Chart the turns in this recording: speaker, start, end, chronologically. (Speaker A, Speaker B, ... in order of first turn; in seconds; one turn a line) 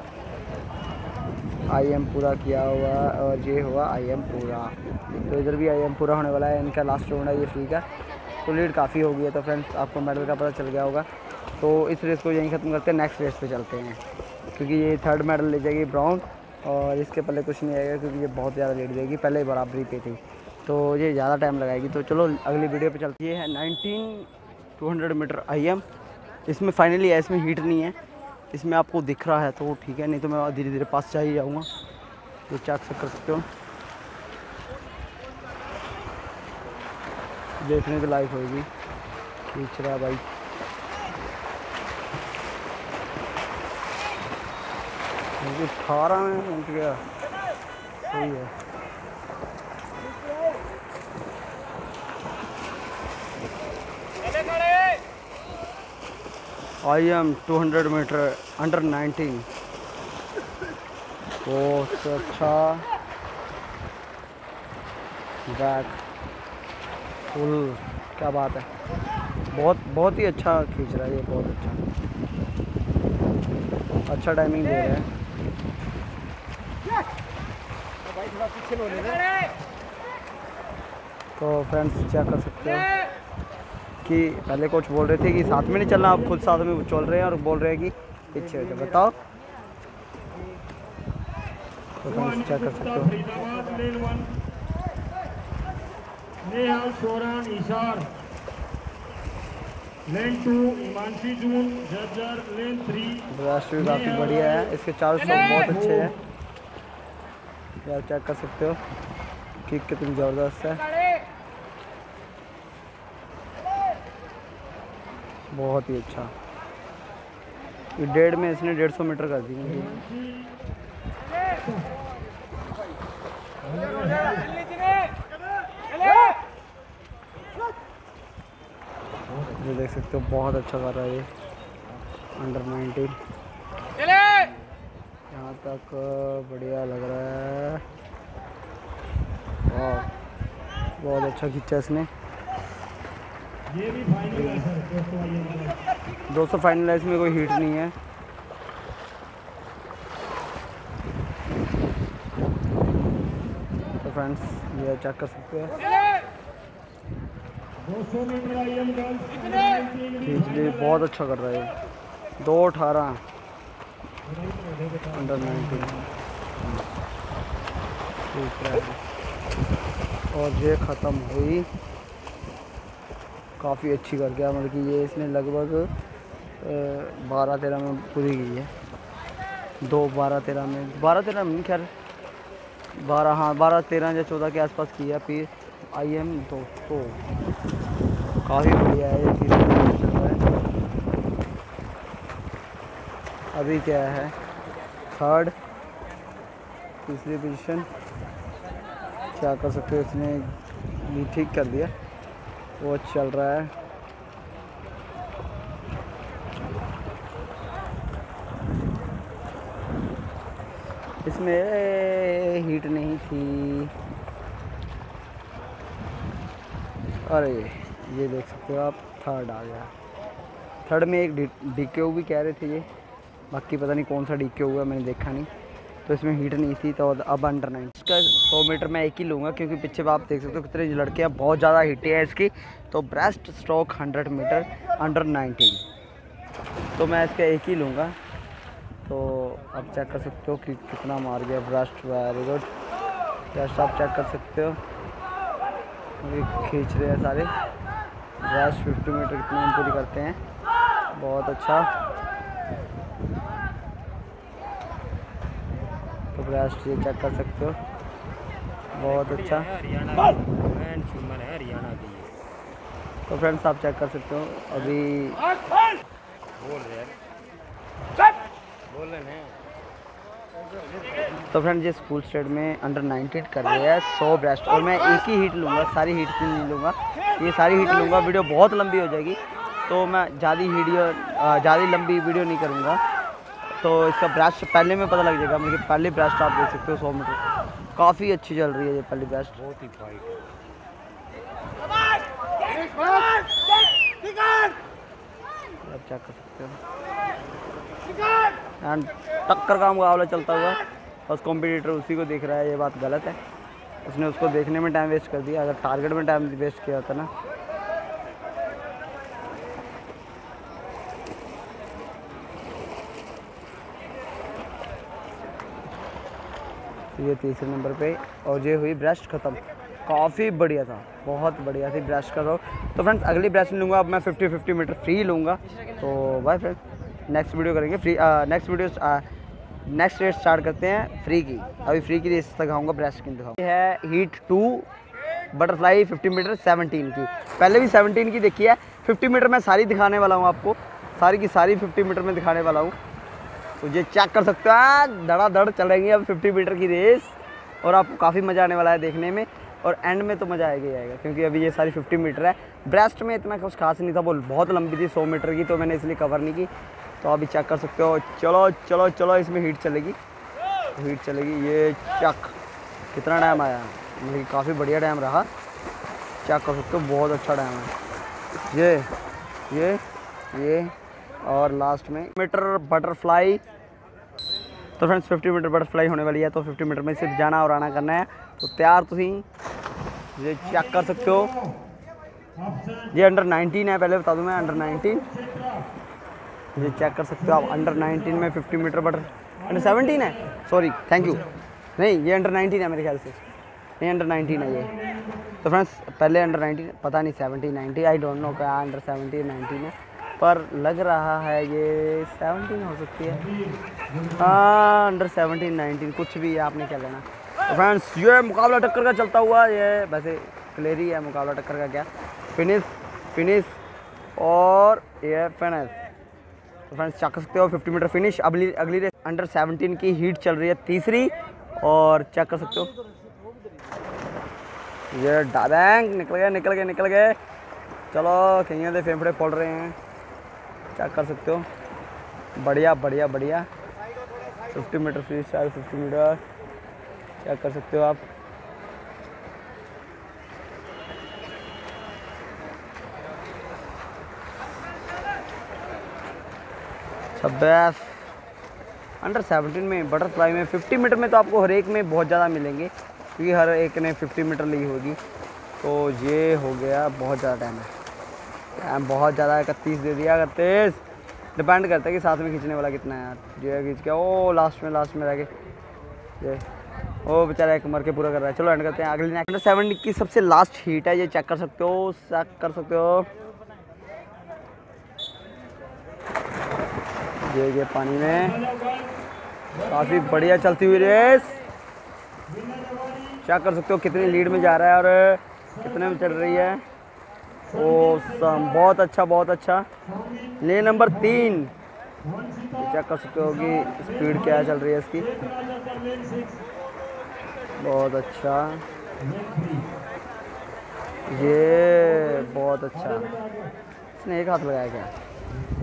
Speaker A: 1.7-7.8
Speaker A: 8.4-11.1
Speaker A: 11.6-14.0
Speaker A: 14.5-25.8
Speaker A: 26.5-28.0
Speaker A: 28.5-31.7
Speaker A: 32.5-33.5
Speaker A: 37.6-38.7
Speaker A: 39.5-40.2
Speaker A: 45.4-47.0
Speaker A: 48.0-48.5
Speaker A: 56.8-59.5
Speaker A: 61.5-62.9
Speaker A: 65.5-66.0
Speaker A: 67.3-68.7
Speaker A: 69.5-71.8
Speaker A: 74.1-75.1
Speaker A: 81.4-82.9
Speaker A: 84.0-89.2
Speaker B: 85.4-86.8
Speaker A: 92.0-93.2
Speaker B: 92.0-94.4
Speaker B: 96.4-98.1
Speaker B: 100.1-106.2
Speaker A: 103.3-106.1
Speaker A: 107.8-108.8
Speaker A: 109.7-110.8
Speaker A: 115.5-116.3
Speaker A: 118.0-120.0
Speaker B: 119.6-120.5
Speaker B: 121.6-121.9
Speaker B: 123.6-124.6
Speaker A: 129.6-131.3
Speaker A: 132.4-133.2
Speaker A: 135.3-137.8
Speaker A: 139.7-140.1
Speaker A: 141.0-142.1
Speaker B: 143.7-145.8
Speaker A: 144.3-144.7
Speaker A: 146.3-147.9
Speaker A: 154.0-155.8
Speaker B: 157.8-161.1
Speaker A: 160.2-161.7
Speaker A: 162.4-163.2
Speaker B: 164.3-166.0
Speaker A: 165.1-166.0
Speaker A: 168.3-169.0
Speaker A: 170.3-171.7
Speaker A: 173.6-175.9
Speaker A: 176.6-178.7
Speaker A: 179.8-181.9
Speaker A: 182.9-187.2
Speaker A: 188.4-190.4
Speaker A: 193.5-194.3
Speaker A: 195.1-195.5
Speaker A: 197.1-197.9
Speaker A: 199.3-201.9
Speaker A: 202.8-203.7
Speaker A: 211.2-213.9
Speaker A: 217.3-219.9
Speaker A: 220.9-222.9
Speaker A: 223.5-225.5
Speaker A: 226.1-235.8
Speaker A: 237.0-238.2
Speaker A: 239.1-242.7
Speaker A: 243.5-244.8
Speaker A: 246.2-247.5
Speaker A: 248.4-250.4
Speaker A: 251.1-251.9
Speaker A: 256.4-257.8
Speaker A: 258.9-259.7
Speaker C: 259.0-262.4
Speaker A: 263.3-265.4
Speaker C: 266.6-267.1
Speaker C: 268.9-269.6
Speaker A: 271.5-283.0
Speaker A: 283.8-287.4
Speaker A: 288.0-289.6
Speaker C: 289.6-290.4
Speaker A: 295.8-296.8
Speaker A: 298.8-303.4
Speaker A: 304.1-307.3
Speaker A: 317.2-329.2
Speaker A: 329.9-334.9
Speaker A: 335.5-342.9
Speaker A: 343.8-356.7
Speaker A: 357.2-360.2
Speaker A: 361.0-362.5
Speaker A: 363.1-365.5
Speaker A: 366.4-367.9
Speaker A: 368.7-369.1
Speaker A: 369.7-370.0
Speaker A: 370.5-373.6
Speaker A: 375.0-379.4
Speaker A: 380.4-381.5
Speaker B: 380.6-381.9
Speaker B: 382.6-383.2
Speaker A: 383.1-385.2
Speaker B: 384.6-385.9
Speaker A: 386.8-393.4
Speaker B: 387.4-388.5
Speaker B: 389.6-390.6
Speaker A: 394.0-394.9
Speaker B: 394.4-395.6
Speaker A: 395.6-403.4
Speaker B: 403.2-404.6
Speaker A: 404.4-413.8
Speaker A: 414.4-415.9
Speaker A: 416.9-422.9
Speaker A: 425.1-427.4
Speaker A: 428.1-430.0
Speaker A: 430.9-431.7
Speaker A: 432.6-433.7
Speaker A: 434.7-436.4
Speaker A: 437.4-438.2
Speaker A: 447.4-448.1
Speaker A: 449.2-455.2
Speaker A: 455.8-457.9
Speaker A: 458.8-461.0
Speaker A: 461.6-465.5
Speaker A: 467.2-473.3
Speaker A: 477.4-478.6
Speaker B: 478.2-479.2
Speaker B: 479.7-481.6
Speaker A: 479.9-481.6
Speaker B: 482.5-483.4
Speaker A: 483.4-486.8
Speaker B: 484.1-484.8
Speaker B: 485.7-486.8
Speaker B: 487.7-488.9
Speaker A: 487.8-489.9
Speaker B: 490.0-491.7
Speaker A: 490.6-491.7
Speaker B: 492.2-496.6
Speaker A: 492.8-495.3
Speaker A: 497.8-498.8
Speaker B: 499.2-499.9
Speaker A: 501.3-503.3
Speaker B: 501.3-503.7
Speaker A: 504.2-505.1